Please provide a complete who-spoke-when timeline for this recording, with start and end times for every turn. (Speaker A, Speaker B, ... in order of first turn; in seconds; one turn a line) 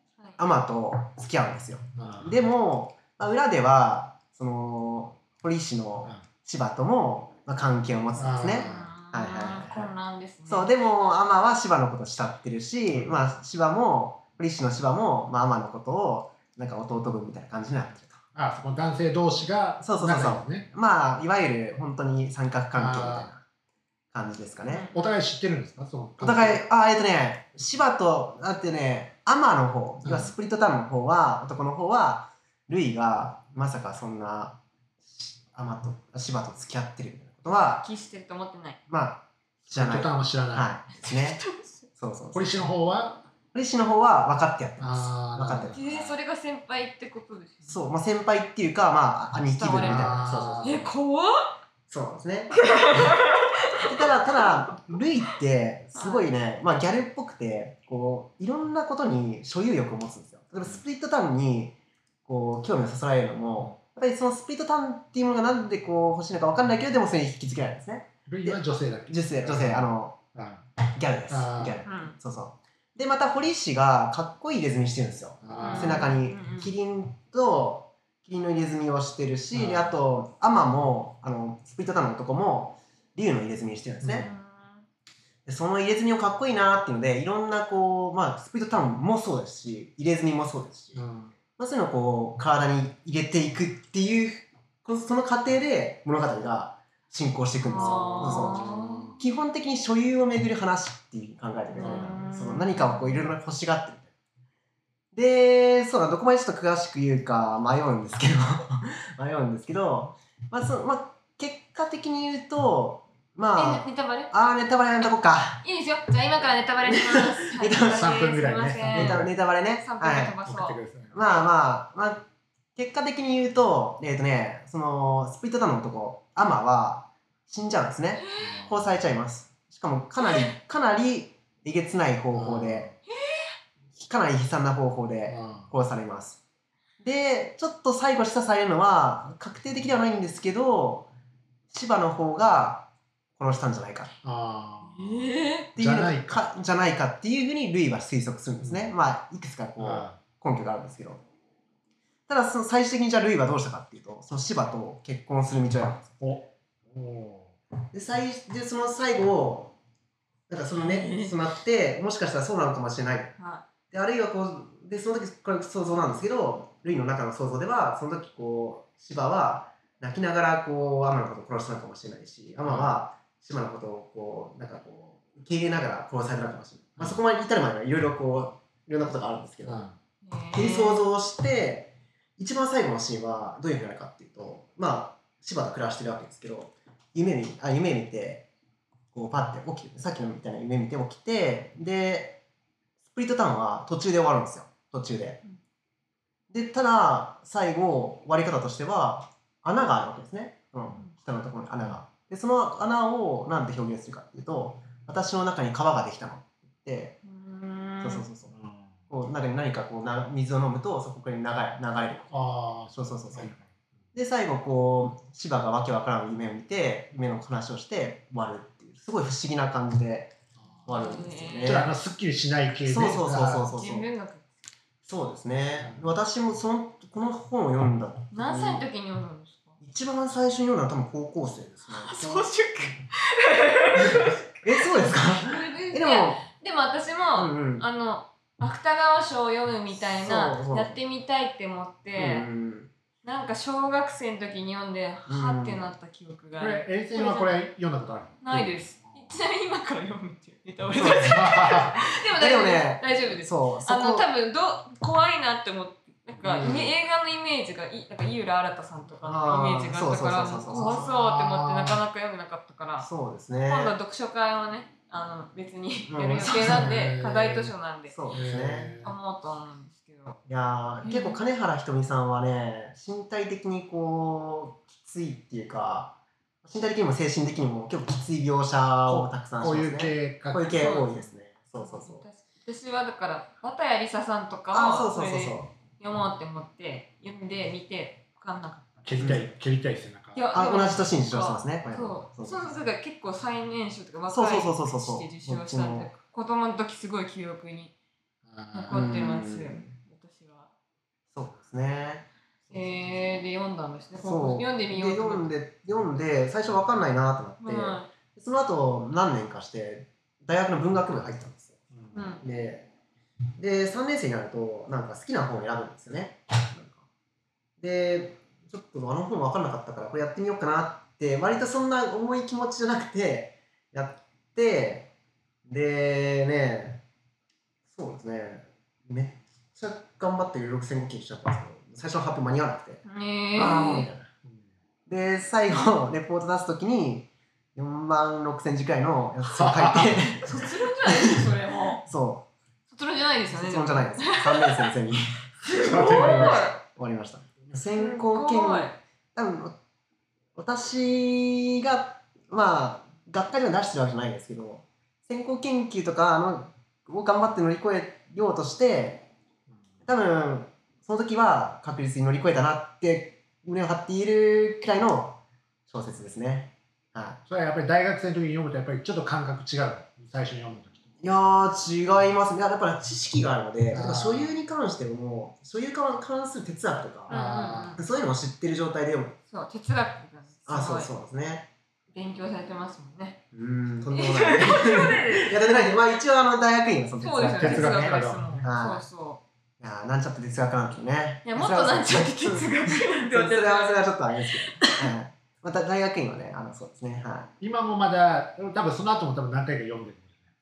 Speaker A: 0.4-9.9
Speaker B: 1.9-2.4
Speaker B: 8.2-8.9
Speaker C: 8.6-10.7
Speaker A: 10.4-18.2
Speaker B: 12.9-13.2
Speaker B: 18.3-20.7
Speaker A: 19.8-23.4
Speaker B: 22.7-23.3
Speaker A: 24.1-24.9
Speaker C: 24.7-25.1
Speaker B: 24.9-26.6
Speaker A: 26.2-37.9
Speaker B: 30.0-30.3
Speaker C: 37.8-38.8
Speaker A: 38.9-41.4
Speaker B: 39.6-40.7
Speaker C: 41.0-41.9
Speaker A: 41.9-42.5
Speaker B: 42.3-43.2
Speaker A: 43.5-46.1
Speaker B: 44.8-45.8
Speaker C: 45.7-47.9
Speaker A: 47.6-50.9
Speaker C: 49.5-51.6
Speaker B: 49.8-50.8
Speaker A: 51.9-53.2
Speaker C: 52.5-54.8
Speaker A: 53.8-70.2
Speaker C: 55.9-56.2
Speaker B: 68.2-70.7
Speaker A: 70.9-84.3
Speaker B: 71.3-71.8
Speaker C: 71.8-72.2
Speaker B: 75.4-76.1
Speaker C: 75.5-76.7
Speaker B: 79.5-79.9
Speaker B: 84.0-84.3
Speaker C: 84.2-84.8
Speaker A: 85.5-91.0
Speaker B: 90.9-91.3
Speaker A: 91.6-98.7
Speaker C: 97.6-99.2
Speaker B: 97.9-99.2
Speaker A: 99.2-104.1
Speaker C: 101.7-103.2
Speaker B: 101.8-102.2
Speaker A: 105.1-115.6
Speaker C: 113.5-114.3
Speaker C: 115.6-119.2
Speaker A: 116.8-118.2
Speaker B: 117.8-119.3
Speaker A: 118.9-120.4
Speaker C: 119.8-120.8
Speaker B: 120.5-121.2
Speaker A: 121.1-122.2
Speaker A: 122.8-132.9
Speaker C: 128.2-128.5
Speaker B: 128.4-129.0
Speaker C: 130.2-130.5
Speaker B: 132.3-132.9
Speaker C: 133.1-133.5
Speaker A: 133.9-136.4
Speaker B: 135.3-135.7
Speaker A: 137.0-141.1
Speaker A: 141.7-144.1
Speaker B: 144.2-146.4
Speaker C: 144.8-145.7
Speaker A: 145.8-151.2
Speaker B: 148.6-148.9
Speaker B: 149.8-150.2
Speaker A: 152.3-156.1
Speaker B: 156.2-157.5
Speaker A: 157.9-159.7
Speaker A: 160.5-163.3
Speaker C: 160.8-161.3
Speaker C: 163.4-163.6
Speaker A: 163.9-179.8
Speaker B: 172.6-172.9
Speaker B: 179.6-179.9
Speaker C: 180.2-181.1
Speaker A: 180.5-188.5
Speaker A: 189.1-192.4
Speaker A: 193.0-195.4
Speaker A: 196.5-207.2
Speaker C: 207.2-208.3
Speaker A: 208.0-208.5
Speaker B: 208.5-208.9
Speaker A: 209.1-212.3
Speaker B: 212.3-213.7
Speaker A: 212.9-213.5
Speaker A: 214.1-220.3
Speaker A: 220.8-221.9
Speaker C: 220.9-221.8
Speaker B: 221.6-223.7
Speaker A: 222.8-224.1
Speaker C: 223.7-224.5
Speaker A: 225.0-228.8
Speaker B: 225.8-226.1
Speaker C: 228.3-229.8
Speaker A: 229.8-233.0
Speaker C: 231.9-242.5
Speaker A: 233.9-236.4
Speaker A: 237.3-237.8
Speaker A: 239.9-241.0
Speaker A: 242.1-242.9
Speaker C: 243.2-247.5
Speaker A: 245.3-245.9
Speaker B: 246.6-248.7
Speaker C: 248.4-263.1
Speaker A: 250.9-251.4
Speaker B: 251.2-251.9
Speaker A: 252.3-254.3
Speaker A: 256.5-256.9
Speaker A: 259.2-261.1
Speaker B: 260.7-262.0
Speaker A: 263.0-263.9
Speaker C: 263.6-268.2
Speaker A: 266.1-266.9
Speaker B: 266.6-267.7
Speaker A: 268.1-268.9
Speaker B: 268.3-269.1
Speaker C: 269.0-270.4
Speaker A: 270.4-282.2
Speaker C: 271.0-271.4
Speaker B: 279.1-280.9
Speaker C: 280.7-281.1
Speaker C: 281.8-289.4
Speaker A: 284.7-285.7
Speaker B: 289.0-290.4
Speaker A: 289.2-289.5
Speaker C: 290.3-297.9
Speaker A: 290.5-292.7
Speaker A: 294.3-296.1
Speaker B: 298.5-299.1
Speaker C: 298.7-300.7
Speaker A: 298.9-299.9
Speaker A: 301.3-302.3
Speaker C: 302.7-305.5
Speaker A: 304.2-311.8
Speaker C: 307.6-308.1
Speaker B: 311.9-312.3
Speaker C: 312.1-312.4
Speaker A: 312.4-312.9
Speaker A: 313.6-317.0
Speaker A: 317.8-325.1
Speaker A: 325.6-327.0
Speaker A: 327.9-334.2
Speaker C: 333.0-334.1
Speaker A: 335.1-341.5
Speaker B: 339.5-340.2
Speaker C: 340.4-342.0
Speaker A: 342.0-342.5
Speaker C: 342.9-344.9
Speaker A: 343.5-349.8
Speaker C: 345.6-346.8
Speaker B: 345.7-346.6
Speaker C: 347.9-349.0
Speaker A: 350.6-359.3
Speaker A: 360.0-367.4
Speaker B: 367.5-371.2
Speaker A: 371.2-377.4
Speaker B: 373.9-374.6
Speaker C: 377.3-378.0
Speaker B: 377.3-378.0
Speaker A: 377.9-379.4
Speaker C: 379.5-381.1
Speaker A: 380.7-381.7
Speaker C: 382.1-383.4
Speaker A: 383.5-389.0
Speaker C: 384.1-385.6
Speaker C: 387.2-389.4
Speaker B: 387.6-388.6
Speaker A: 389.8-397.5
Speaker C: 391.4-395.1
Speaker B: 397.6-400.3